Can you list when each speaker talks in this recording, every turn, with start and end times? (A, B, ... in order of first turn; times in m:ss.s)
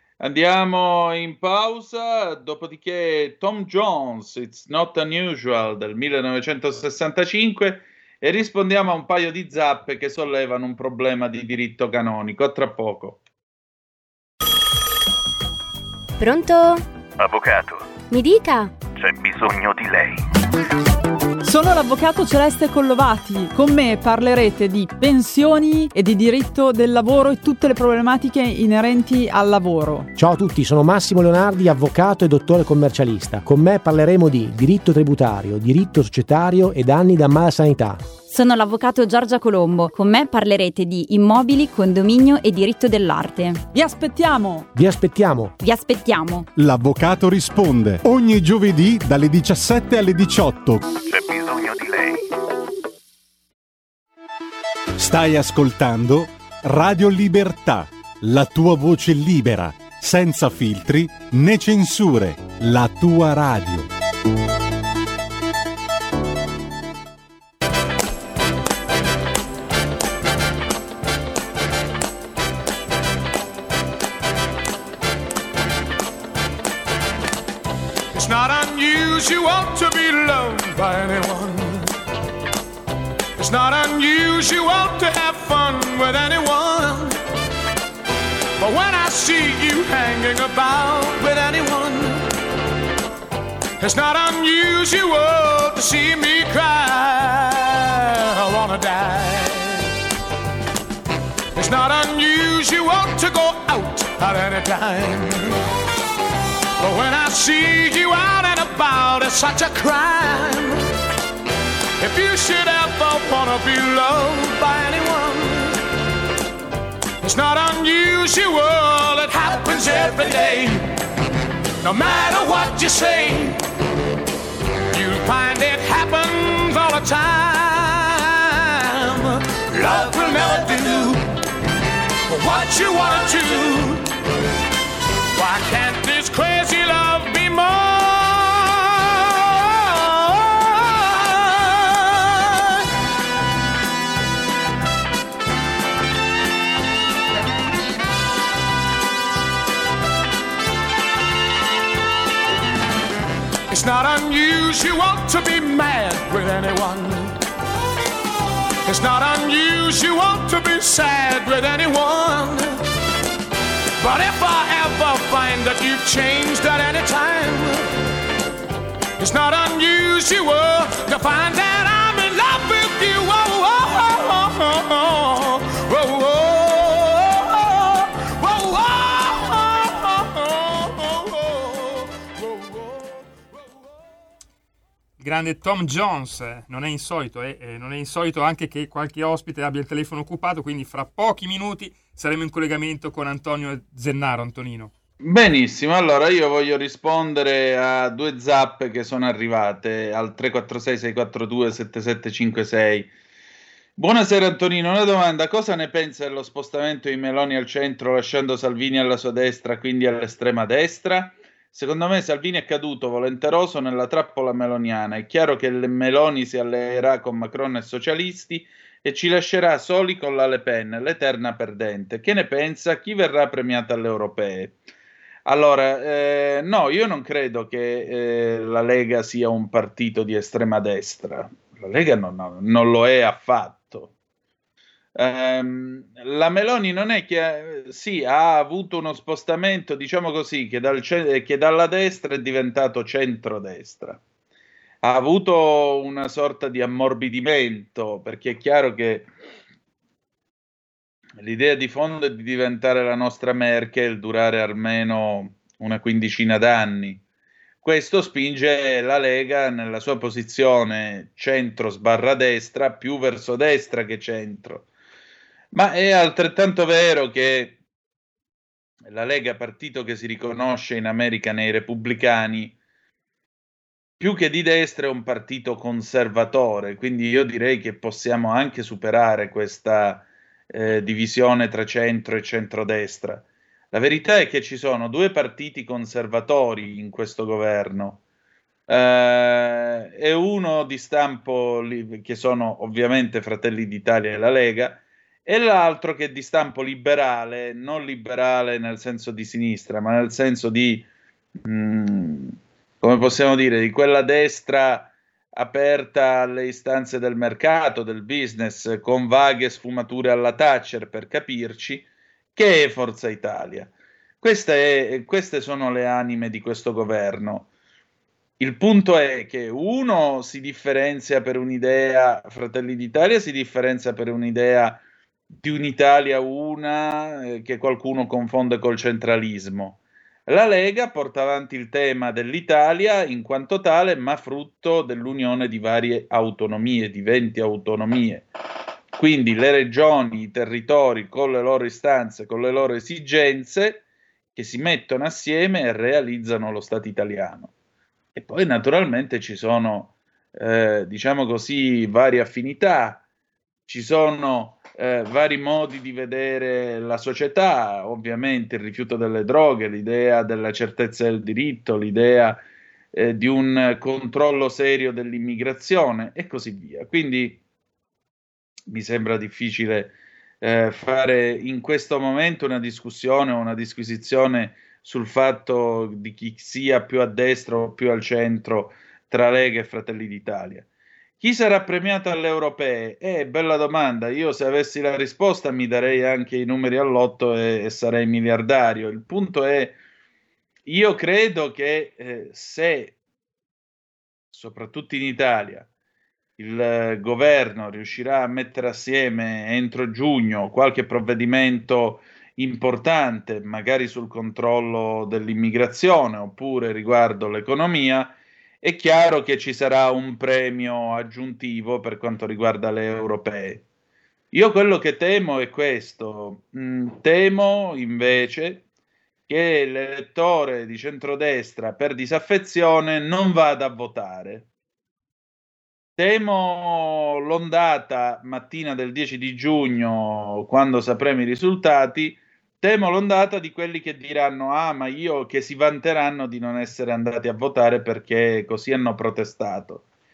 0:00.2-0:13.2 A
0:16.2-0:16.9 B
0:17.2-0:18.0 C
0:18.1-0:18.8 B
0:18.9-0:20.2 C
0:21.4-0:30.1 D
0:30.2-0:38.1 E
0:38.2-0:43.6 B
0:43.7-0:44.7 D
0:44.7-0:45.5 E
0:45.6-0:46.4 B
0:46.6-0:50.8 F
0:50.9-0:52.2 C
0:55.0-1:03.9 F
1:18.1-1:21.9 G
1:23.4-1:27.2 G
1:28.6-1:32.3 G
1:33.8-1:39.8 G
1:41.5-1:45.6 G
1:46.8-1:50.8 G
1:52.0-1:55.8 G
1:57.2-2:00.9 G
2:01.8-2:03.6 G
2:04.9-2:11.3 G
2:12.3-2:14.1 G
2:15.3-2:22.7 G
2:33.7-2:37.4 G
2:38.8-2:42.8 G
2:44.0-2:47.9 G
2:49.2-3:03.2 G
3:05.2-3:14.9 H
3:15.2-3:23.1 A
3:24.0-3:44.8 A
3:45.4-3:54.1 A
3:55.1-4:04.2 A
4:05.0-4:09.3 A
4:11.4-4:17.2 A
4:17.8-4:24.9 A
4:25.7-4:27.8 A
4:29.0-4:32.7 A
4:34.2-4:48.2 A
4:48.9-5:01.1 A
5:01.6-5:17.7 A
5:18.6-5:38.4 A
5:39.1-5:44.0 A
5:44.5-5:47.7 A
5:48.3-5:53.2 A
5:53.9-6:02.6 A
6:03.1-6:07.6 A
6:08.9-6:20.8 A
6:21.4-6:30.0 A
6:30.8-6:33.1 A
6:34.5-6:35.9 A
6:36.6-6:53.8 A
6:54.5-6:58.8 A
6:59.5-7:04.7 A
7:06.2-7:20.0 A